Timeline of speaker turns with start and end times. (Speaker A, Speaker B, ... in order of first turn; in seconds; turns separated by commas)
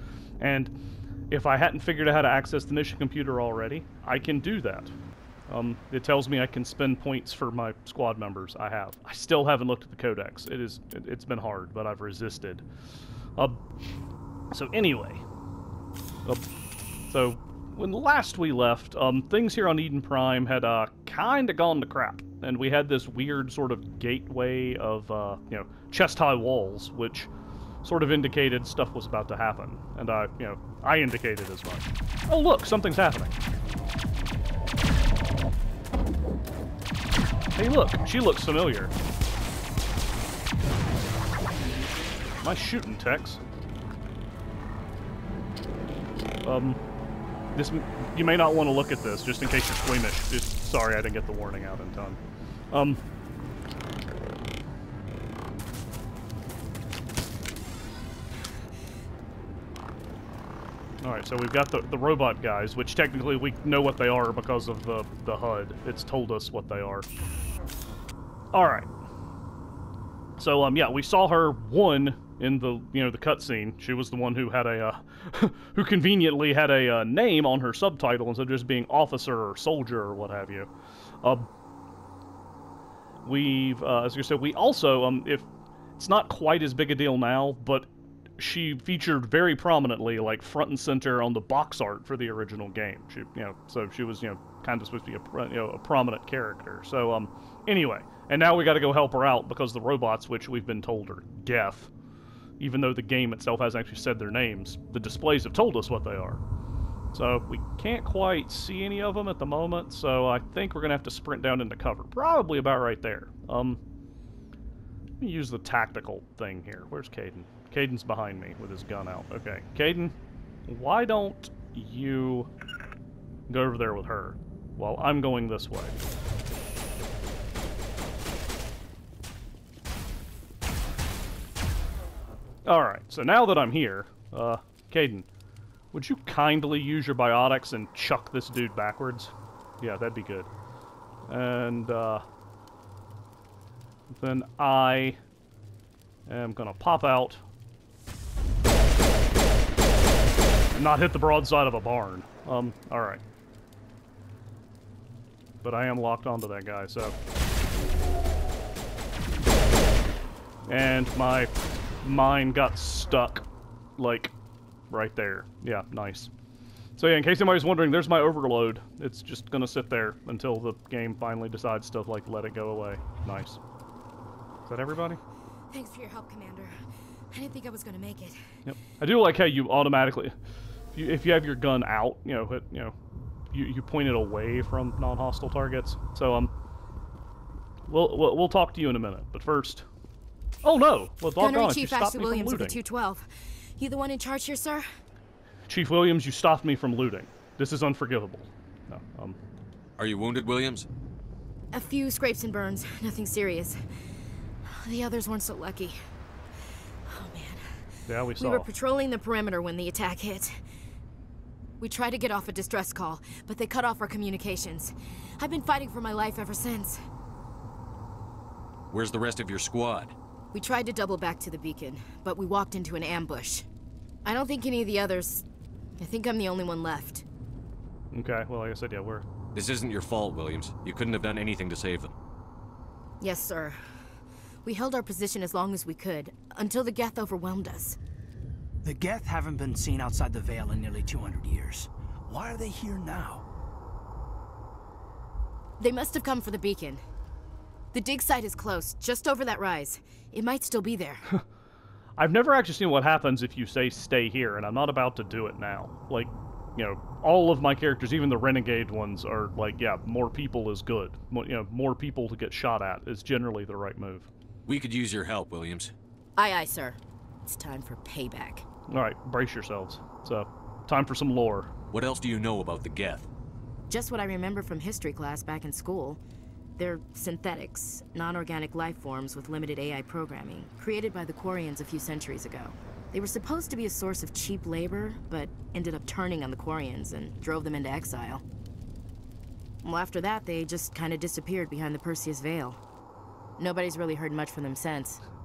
Speaker A: 0.4-0.7, Speaker A: 1.3-4.9, Speaker A: 5.5-12.6, Speaker A: 14.5-15.2, Speaker A: 17.1-27.3, Speaker A: 27.8-33.4, Speaker A: 37.5-38.9, Speaker A: 42.4-43.4, Speaker A: 46.4-46.8, Speaker A: 47.5-52.2, Speaker A: 52.7-53.0, Speaker A: 61.0-67.1, Speaker A: 68.5-68.9, Speaker A: 70.4-80.7, Speaker A: 81.2-81.5, Speaker A: 83.2-85.5, Speaker A: 86.0-87.9, Speaker A: 88.4-101.9, Speaker A: 102.6-106.4, Speaker A: 107.1-113.8, Speaker A: 115.2-120.1, Speaker A: 120.7-122.5, Speaker A: 123.5-126.0, Speaker A: 132.6-135.2, Speaker A: 135.9-140.5, Speaker A: 141.3-142.2, Speaker A: 144.1-145.2, Speaker A: 146.3-147.4, Speaker A: 150.7-153.2, Speaker A: 155.6-157.1, Speaker A: 160.7-161.5, Speaker A: 162.0-163.4, Speaker A: 164.0-164.3, Speaker A: 164.9-166.3, Speaker A: 167.0-173.6, Speaker A: 174.7-175.2, Speaker B: 175.7-176.8, Speaker B: 177.3-178.4, Speaker A: 178.6-180.3, Speaker A: 180.9-182.9, Speaker A: 183.5-186.5, Speaker A: 187.9-189.8, Speaker A: 190.6-192.8, Speaker B: 191.4-194.9, Speaker A: 195.7-199.4, Speaker C: 200.0-200.9, Speaker B: 201.7-203.8, Speaker B: 204.6-206.0, Speaker B: 207.1-207.8, Speaker A: 208.1-208.7, Speaker B: 208.4-210.6, Speaker B: 211.8-217.0, Speaker C: 218.9-220.1, Speaker B: 220.5-223.7, Speaker B: 224.2-225.4, Speaker B: 226.0-227.2, Speaker A: 228.1-229.2, Speaker C: 229.5-232.1, Speaker B: 233.2-234.1, Speaker B: 234.6-238.0, Speaker D: 238.8-243.4, Speaker B: 245.8-247.0, Speaker B: 247.9-251.2, Speaker A: 252.2-264.3, Speaker C: 264.7-265.9, Speaker B: 266.4-268.6, Speaker A: 268.9-271.7, Speaker C: 271.9-273.3, Speaker B: 273.9-276.2, Speaker B: 276.8-288.4, Speaker B: 289.8-292.8, Speaker B: 293.6-295.2